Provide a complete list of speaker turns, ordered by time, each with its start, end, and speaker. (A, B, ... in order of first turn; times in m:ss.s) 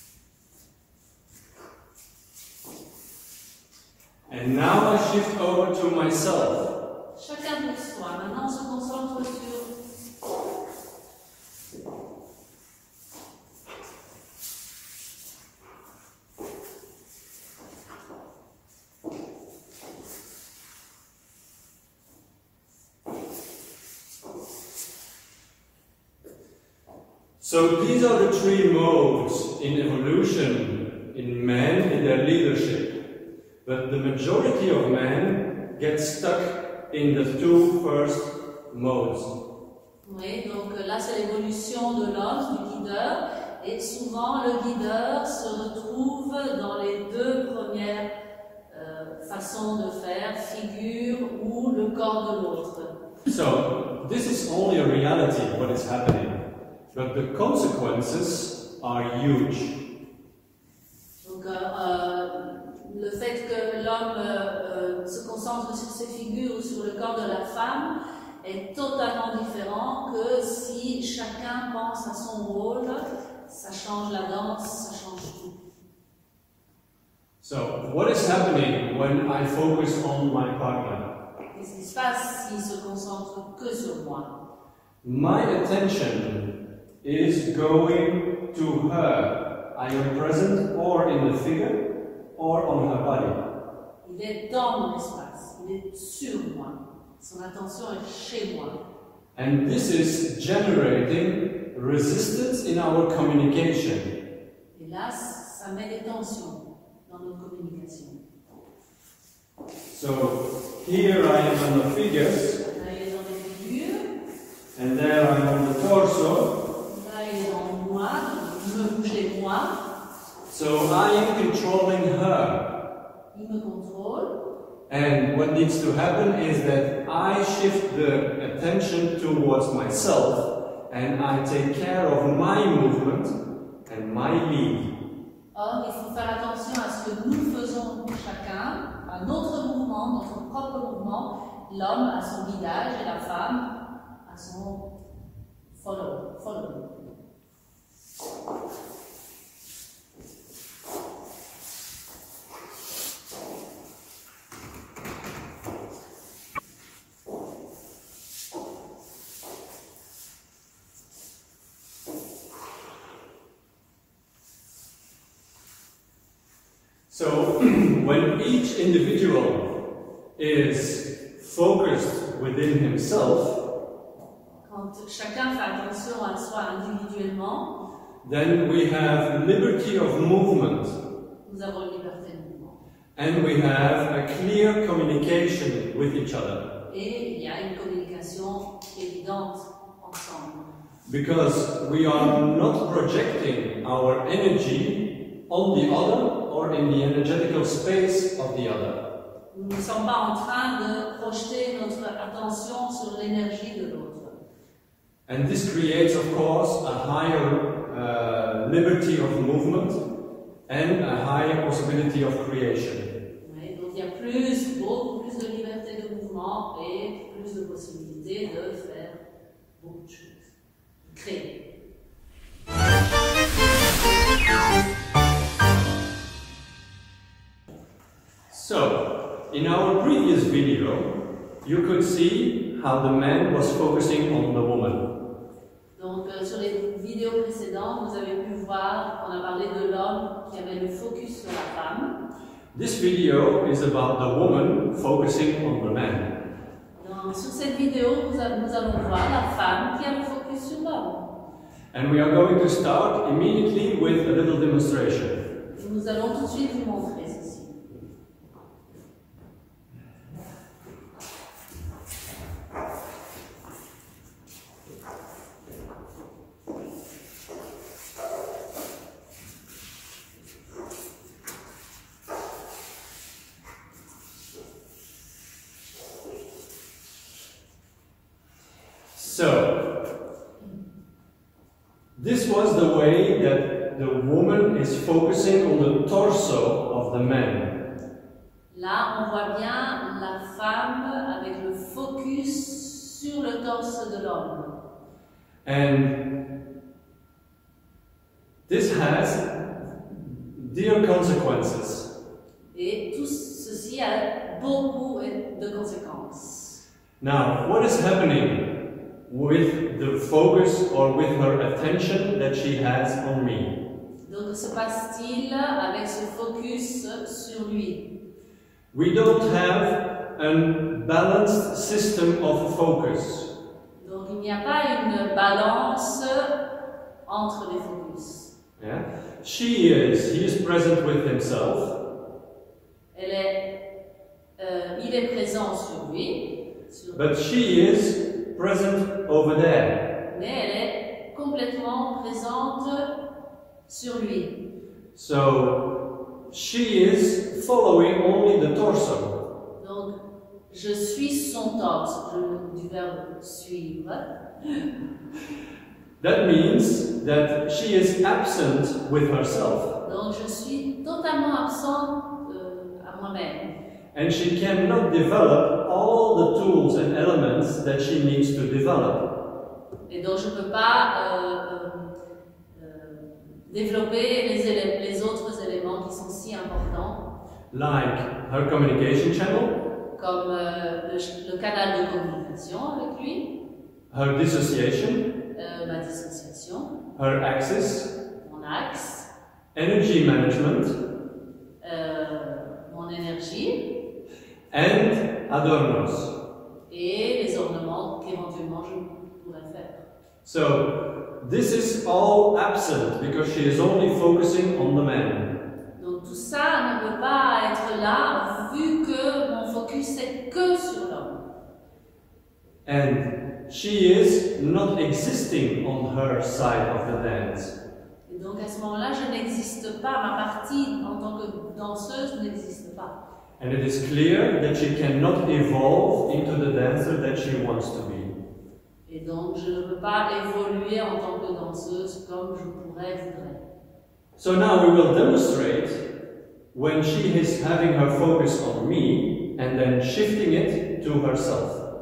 0:04.3-0:06.7 A
0:07.2-0:09.7 B
0:27.4-0:33.0 A
0:33.6-0:39.3 A
0:40.0-0:48.1 B
0:48.7-0:52.9 B
0:53.2-0:56.4 A
0:56.9-0:59.8 A
1:01.2-1:15.6 B
1:17.4-1:21.1 A
1:21.5-1:24.3 B
1:25.0-1:26.5 A
1:27.0-1:31.8 A
1:32.4-1:33.4 A
1:34.0-1:38.8 B
1:39.4-1:44.1 A
1:44.7-1:48.2 B
1:49.9-1:52.6 A
1:52.6-1:54.1 B
1:54.8-1:56.5 A
1:56.8-1:59.7 B
2:00.5-2:02.6 A
2:03.3-2:04.3 B
2:04.9-2:13.4 A
2:13.9-2:14.9 A
2:15.5-2:24.9 B
2:25.7-2:26.9 B
2:47.1-2:49.7 A
2:50.4-2:53.6 A
2:54.6-2:57.7 B
2:58.2-3:01.0 A
3:01.4-3:02.8 B
3:03.2-3:06.6 A
3:06.9-3:10.6 B
3:11.1-3:19.0 A
3:19.5-3:24.4 B
3:25.3-3:30.0 A
3:30.7-3:33.1 A
3:33.4-3:39.2 B
3:39.8-3:40.4 B
3:41.0-3:41.5 B
3:48.5-3:55.0 A
3:56.0-4:02.1 B
4:02.7-4:06.3 A
4:07.0-4:11.3 B
4:11.9-4:15.4 A
4:15.7-4:17.8 B
4:39.1-4:39.8 A
4:42.2-4:47.8 A
4:48.7-4:54.7 B
4:55.6-4:56.2 A
4:58.7-4:59.5 A
5:00.1-5:02.1 A
5:02.7-5:06.8 B
5:07.2-5:08.7 A
5:09.3-5:13.8 A
5:14.2-5:18.1 B
5:18.9-5:23.5 A
5:24.0-5:26.5 B
5:27.3-5:28.5 B
5:28.8-5:32.0 A
5:33.1-5:33.7 B
5:34.6-5:37.2 B
5:37.1-5:40.0 A
5:40.3-5:43.1 B
5:43.9-5:44.6 B
5:45.2-5:45.8 A
5:46.5-5:49.3 A
5:49.8-5:50.2 B
5:50.7-5:54.3 B
5:56.2-5:59.9 A
6:00.0-6:03.7 B
6:04.1-6:09.3 A
6:10.1-6:12.1 B
6:12.7-6:17.3 B
6:17.7-6:19.8 A
6:20.1-6:23.5 B
6:24.1-6:25.2 A
6:25.5-6:27.0 B
6:27.2-6:28.1 A
6:28.4-6:29.3 B
6:29.7-6:31.0 A
6:31.8-6:33.9 B
6:34.7-6:36.3 A
6:36.9-6:40.0 B
6:40.4-6:45.5 A
6:46.0-6:51.4 B
6:52.8-6:57.7 A
6:58.3-7:03.2 B
7:03.6-7:08.3 A
7:09.1-7:13.6 B
7:14.4-7:16.0 A
7:16.7-7:21.8 A